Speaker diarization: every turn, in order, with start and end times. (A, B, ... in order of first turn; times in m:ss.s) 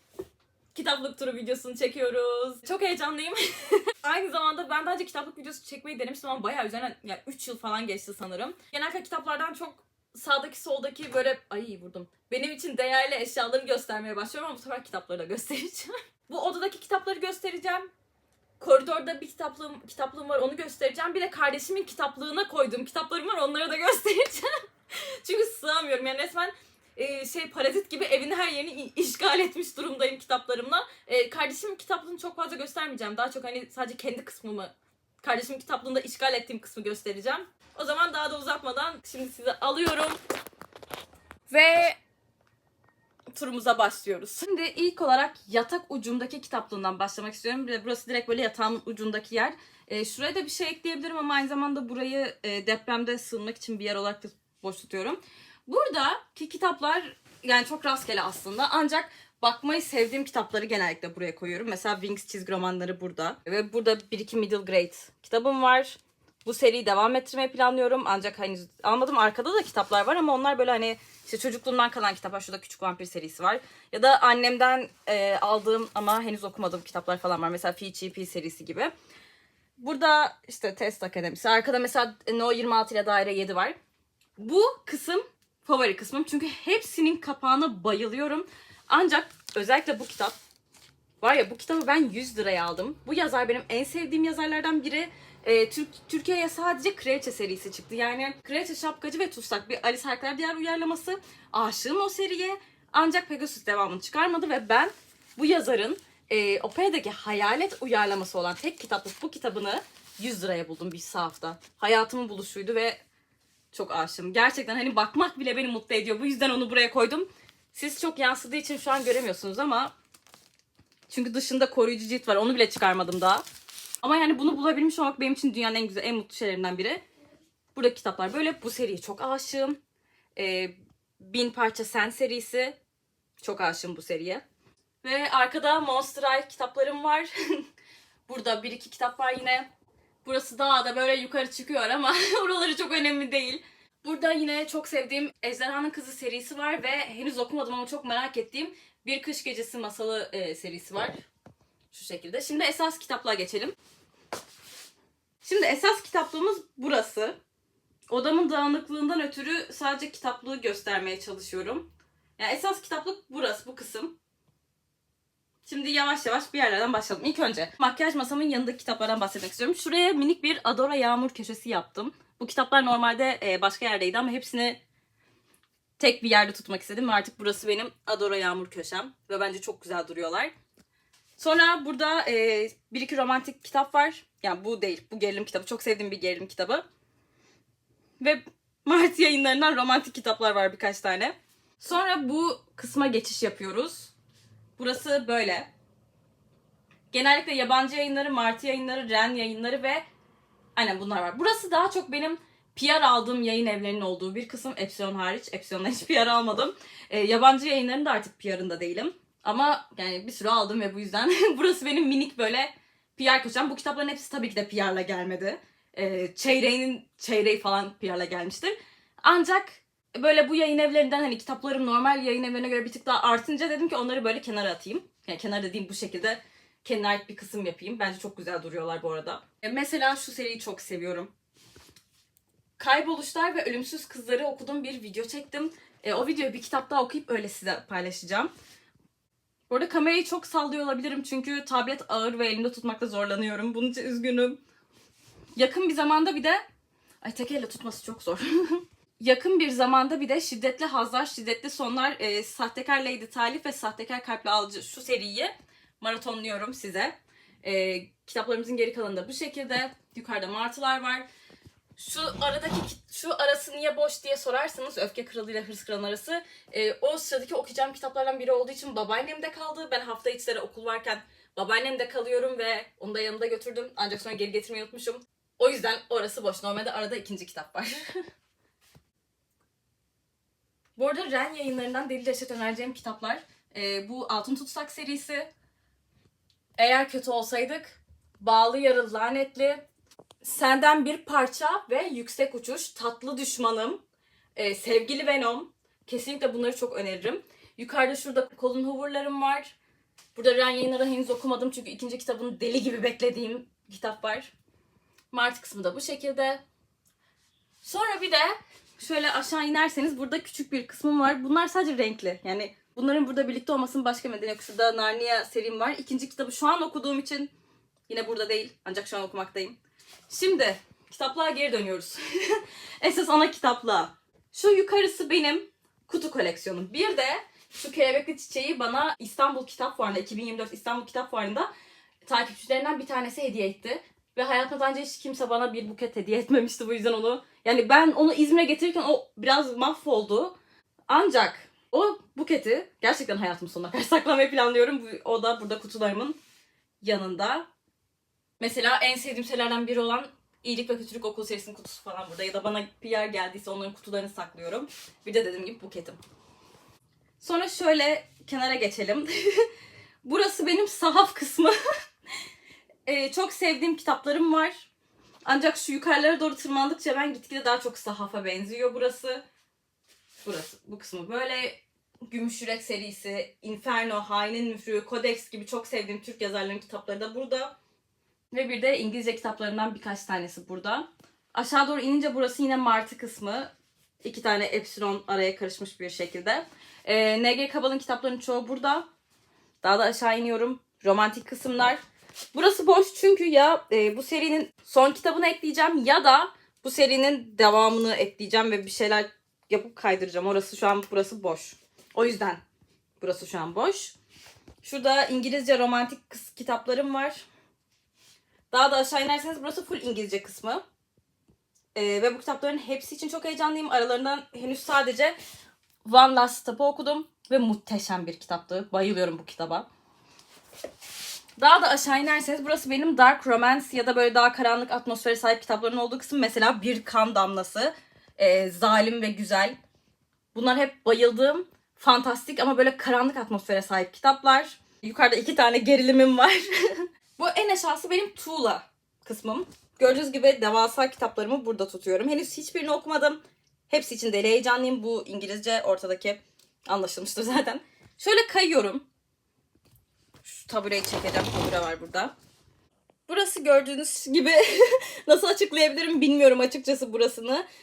0:00.7-0:17.9 A
0:18.6-0:40.2 A
0:41.5-0:42.0 A
0:43.4-1:18.9 A
1:19.8-1:23.8 A
1:24.4-1:30.4 A
1:31.2-1:53.0 A
1:53.7-1:59.9 A
2:01.1-2:03.4 A
2:04.0-2:07.0 A
2:07.8-2:09.8 A
2:10.4-2:12.8 A
2:13.4-2:14.4 A
2:15.0-2:17.6 A
2:18.3-2:19.7 A
2:20.2-2:31.2 A
2:31.9-2:33.8 A
2:35.4-2:37.4 A
2:38.1-2:44.2 A
2:45.6-2:54.8 A
2:56.0-3:00.5 A
3:01.4-3:06.9 A
3:08.2-3:14.1 A
3:14.8-3:15.7 A
3:17.1-3:20.0 A
3:20.8-3:51.3 A
3:52.8-3:58.5 A
3:59.7-4:04.6 A
4:05.6-4:06.6 A
4:07.2-4:21.3 A
4:22.0-4:38.1 A
4:41.0-4:45.5 A
4:46.8-4:49.8 A
4:50.4-4:54.0 A
4:54.6-4:59.8 A
5:00.4-5:04.5 A
5:05.3-5:06.6 A
5:07.8-5:17.5 A
5:18.1-5:19.8 A
5:20.3-5:31.7 A
5:32.2-5:40.6 A
5:41.1-5:46.4 A
5:47.0-5:47.7 A
5:48.6-5:56.2 A
5:57.4-5:59.7 A
6:00.2-6:01.7 A
6:03.0-6:04.9 A
6:05.4-6:09.4 A
6:10.4-6:17.8 A
6:18.5-6:23.7 A
6:24.2-6:29.1 A
6:29.8-6:32.0 A
6:32.5-6:42.6 A
6:43.2-6:44.2 A
6:44.8-6:47.4 A
6:48.7-6:50.8 A
6:52.0-6:55.4 A
6:56.0-6:59.9 A
7:01.6-7:09.8 A
7:10.5-7:29.1 A
7:30.4-7:32.3 A
7:33.3-7:37.6 A